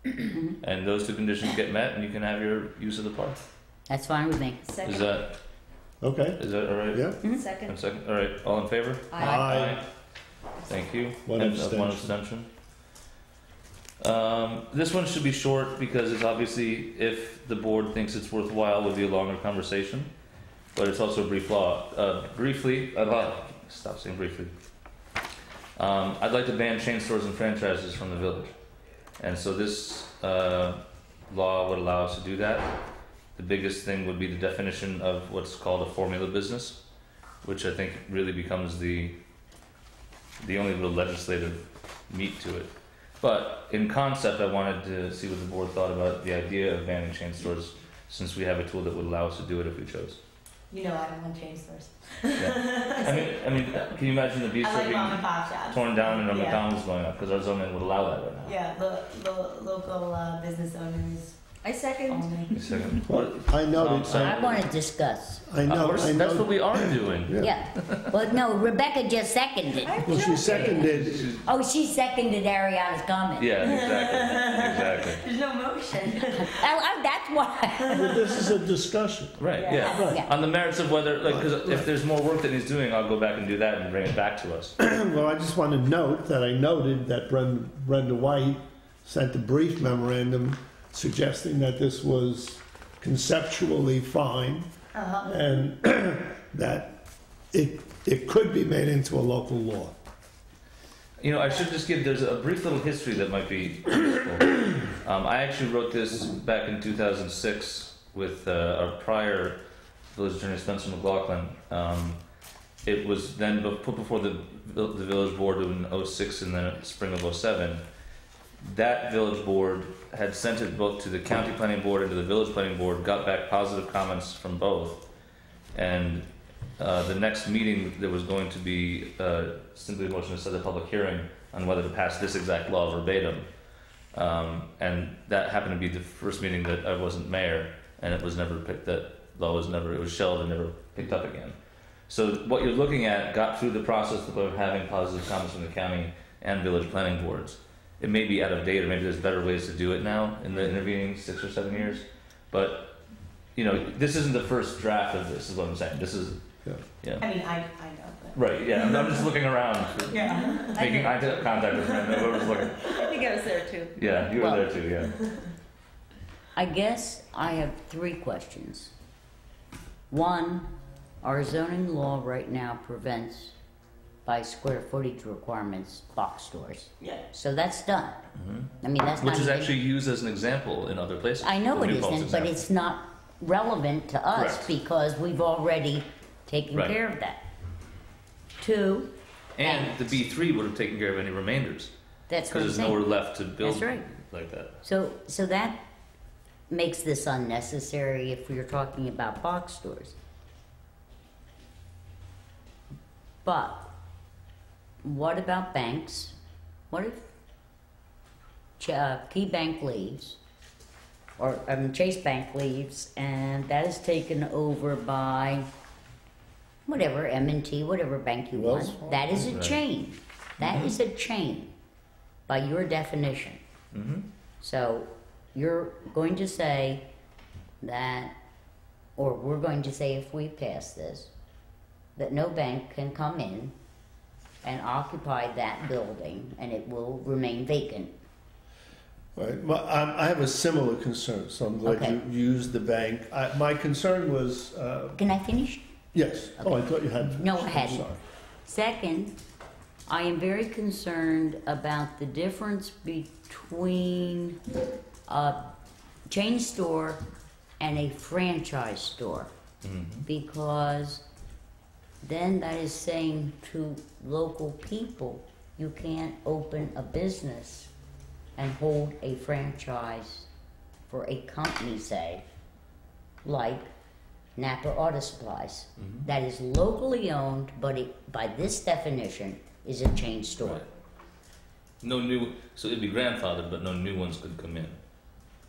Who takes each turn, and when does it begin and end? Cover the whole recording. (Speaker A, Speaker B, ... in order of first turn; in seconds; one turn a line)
Speaker A: 0.2-0.6
Speaker B: 0.6-3.4
Speaker A: 3.9-4.6
Speaker C: 4.6-5.2
Speaker B: 4.8-5.4
Speaker D: 6.0-7.2
Speaker B: 6.4-9.9
Speaker C: 7.2-7.8
Speaker C: 9.1-9.4
Speaker D: 9.1-9.8
Speaker B: 10.6-12.5
Speaker D: 11.2-12.1
Speaker B: 14.0-20.1
Speaker B: 20.7-24.5
Speaker B: 25.8-28.5
Speaker B: 29.2-32.8
Speaker B: 33.4-36.8
Speaker B: 37.4-39.2
Speaker B: 40.4-50.2
Speaker E: 50.7-53.4
Speaker B: 52.4-58.6
Speaker E: 54.5-56.7
Speaker E: 58.4-61.4
Speaker C: 61.6-62.5
Speaker E: 62.0-63.0
Speaker B: 62.5-64.7
Speaker D: 63.0-64.6
Speaker A: 64.1-65.4
Speaker D: 65.4-67.5
Speaker B: 65.6-68.1
Speaker A: 67.4-70.8
Speaker C: 69.8-70.7
Speaker D: 70.0-71.3
Speaker B: 70.3-71.4
Speaker A: 71.3-73.5
Speaker B: 73.4-75.2
Speaker E: 73.6-76.7
Speaker A: 76.1-78.2
Speaker E: 77.7-78.4
Speaker D: 77.9-80.2
Speaker B: 79.4-84.7
Speaker E: 79.5-80.1
Speaker A: 80.0-80.3
Speaker D: 81.2-81.9
Speaker D: 84.8-94.7
Speaker E: 94.9-95.3
Speaker D: 95.2-97.0
Speaker D: 97.5-100.0
Speaker B: 101.2-109.6
Speaker B: 110.1-112.2
Speaker B: 112.8-117.8
Speaker B: 118.6-125.0
Speaker B: 125.7-126.3
Speaker B: 126.8-133.5
Speaker B: 134.1-141.6
Speaker B: 142.1-153.0
Speaker B: 153.6-156.4
Speaker B: 157.0-157.2
Speaker E: 157.2-159.4
Speaker B: 158.3-163.0
Speaker E: 160.0-163.0
Speaker C: 160.2-160.6
Speaker C: 162.9-163.9
Speaker B: 163.9-165.2
Speaker A: 164.3-164.7
Speaker A: 166.6-168.9
Speaker A: 170.1-170.7
Speaker A: 171.2-173.5
Speaker A: 174.2-178.2
Speaker B: 178.4-182.6
Speaker A: 178.8-179.8
Speaker A: 181.4-187.4
Speaker B: 184.3-184.7
Speaker A: 188.6-189.1
Speaker B: 189.6-191.9
Speaker A: 189.6-190.2
Speaker A: 192.3-193.0
Speaker B: 192.5-194.8
Speaker A: 193.6-194.1
Speaker A: 194.8-195.8
Speaker A: 196.7-200.2
Speaker A: 203.4-203.9
Speaker A: 205.0-206.3
Speaker A: 206.9-207.2
Speaker A: 208.8-210.4
Speaker A: 211.4-215.7
Speaker A: 216.8-221.7
Speaker D: 218.5-219.7
Speaker B: 219.4-219.8
Speaker B: 220.6-220.9
Speaker A: 222.5-223.6
Speaker B: 223.9-224.3
Speaker A: 224.6-227.0
Speaker A: 227.8-228.3
Speaker A: 229.2-231.3
Speaker A: 232.2-233.7
Speaker A: 234.6-238.1
Speaker D: 239.3-245.2
Speaker A: 241.8-242.2
Speaker A: 245.2-245.8
Speaker D: 246.1-248.2
Speaker A: 246.6-248.1
Speaker A: 248.7-249.3
Speaker A: 250.1-254.6
Speaker A: 255.3-255.6
Speaker A: 256.3-257.2
Speaker A: 257.8-259.5
Speaker B: 259.8-260.3
Speaker A: 260.2-261.2
Speaker A: 262.2-267.9
Speaker A: 268.6-270.5
Speaker A: 271.1-272.5
Speaker A: 273.4-273.9
Speaker A: 274.6-280.8
Speaker B: 276.0-276.3
Speaker B: 282.0-285.0